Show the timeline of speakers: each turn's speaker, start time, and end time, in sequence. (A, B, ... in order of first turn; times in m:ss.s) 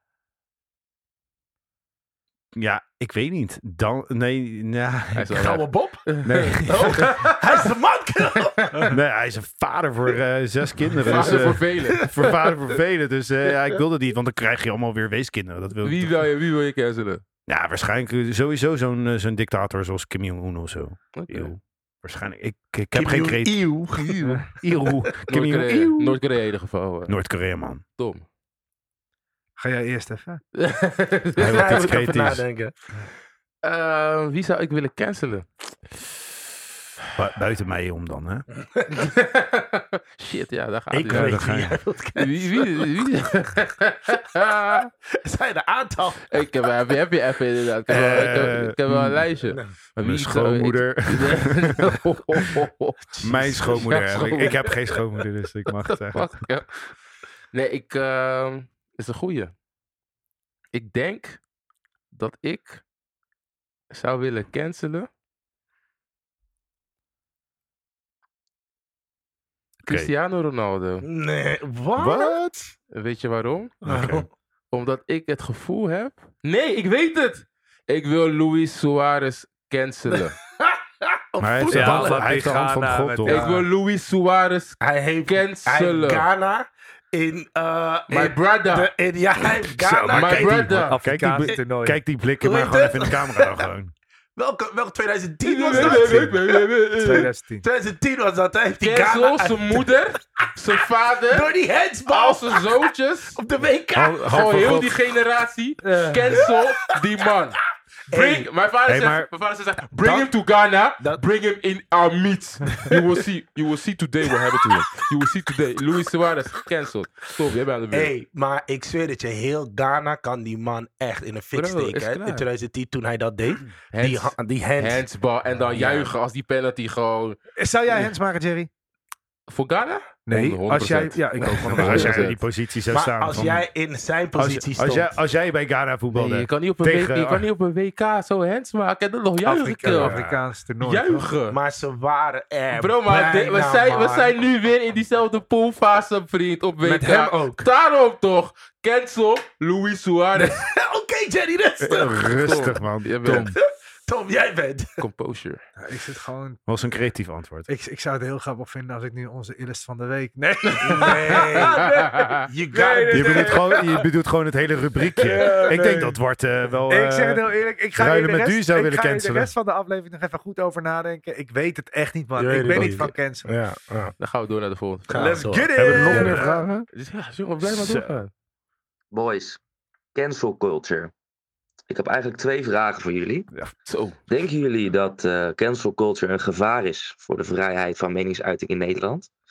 0:02.5-0:05.6 A
0:05.2-0:07.3 B
0:05.4-0:06.1 C
0:06.2-0:07.2 A
0:06.6-0:08.9 C
0:08.9-0:16.3 A
0:11.0-0:12.1 B
0:11.1-0:12.1 C
0:15.8-0:17.2 B
0:17.5-0:23.8 A
0:21.2-0:21.5 B
0:22.9-0:24.4 C
0:24.6-0:26.2 A
0:25.3-0:27.1 B
0:27.1-0:27.8 A
0:28.0-0:28.2 B
0:29.6-0:30.4 D
0:30.6-0:31.8 B
0:31.4-0:32.4 A
0:31.4-0:32.7 C
0:33.6-0:35.4 B
0:37.1-0:38.4 A
0:38.6-0:38.9 C
0:38.9-0:41.4 B
0:40.9-0:42.9 C
0:40.9-0:41.8 A
0:42.2-0:44.9 B
0:45.2-0:46.3 C
0:46.3-0:54.8 B
0:47.9-0:49.3 A
0:49.4-0:49.7 C
0:50.0-0:56.5 A
0:53.6-0:54.0 C
0:55.8-0:56.7 B
0:57.5-0:59.5 B
1:00.7-1:01.4 B
1:02.1-1:02.8 B
1:03.9-1:05.1 B
1:09.8-1:10.1 A
1:09.8-1:11.0 B
1:11.0-1:12.4 C
1:12.0-1:12.7 A
1:12.9-1:13.7 B
1:13.8-1:14.3 A
1:13.8-1:14.2 C
1:14.7-1:20.4 B
1:20.1-1:22.4 C
1:21.4-1:23.5 A
1:21.7-1:23.7 D
1:23.2-1:26.2 B
1:24.8-1:30.8 C
1:28.1-1:28.9 B
1:29.8-1:33.9 A
1:30.1-1:31.0 B
1:30.9-1:32.0 D
1:32.4-1:33.7 C
1:34.4-1:40.4 C
1:35.4-1:37.3 B
1:35.7-1:36.3 D
1:37.0-1:37.6 D
1:38.8-1:41.5 B
1:41.3-1:42.7 C
1:42.1-1:43.4 B
1:43.4-1:44.4 C
1:43.9-1:45.0 A
1:44.2-1:47.6 B
1:45.8-1:46.4 D
1:48.1-1:48.5 C
1:48.1-1:58.1 B
1:48.9-1:49.3 A
1:50.0-1:50.3 C
1:57.9-2:05.0 C
2:01.6-2:02.4 B
2:03.9-2:07.4 B
2:05.7-2:06.1 C
2:07.6-2:08.7 D
2:09.5-2:12.4 B
2:10.3-2:12.1 D
2:11.6-2:13.7 A
2:12.9-2:15.2 C
2:14.4-2:17.5 A
2:16.1-2:20.2 B
2:19.4-2:21.3 D
2:19.9-2:20.4 C
2:20.8-2:21.6 B
2:21.5-2:24.3 C
2:22.7-2:30.6 B
2:26.8-2:27.6 C
2:30.4-2:32.3 C
2:31.8-2:33.6 A
2:32.0-2:33.6 B
2:33.6-2:34.9 C
2:35.0-2:35.6 B
2:35.8-2:36.6 D
2:36.7-2:37.7 A
2:37.7-2:44.0 D
2:40.8-2:41.8 C
2:42.0-2:42.3 B
2:42.4-2:43.6 C
2:43.1-2:49.5 A
2:45.2-2:46.2 D
2:46.9-2:53.5 D
2:52.4-2:54.1 C
2:52.7-2:53.0 B
2:54.2-2:58.3 B
2:55.1-2:55.7 C
2:55.1-2:56.6 D
2:55.7-2:56.7 A
2:57.6-2:58.2 A
2:59.1-2:59.6 E
3:00.1-3:01.1 E
3:01.9-3:03.5 E
3:03.8-3:04.2 B
3:04.3-3:09.3 E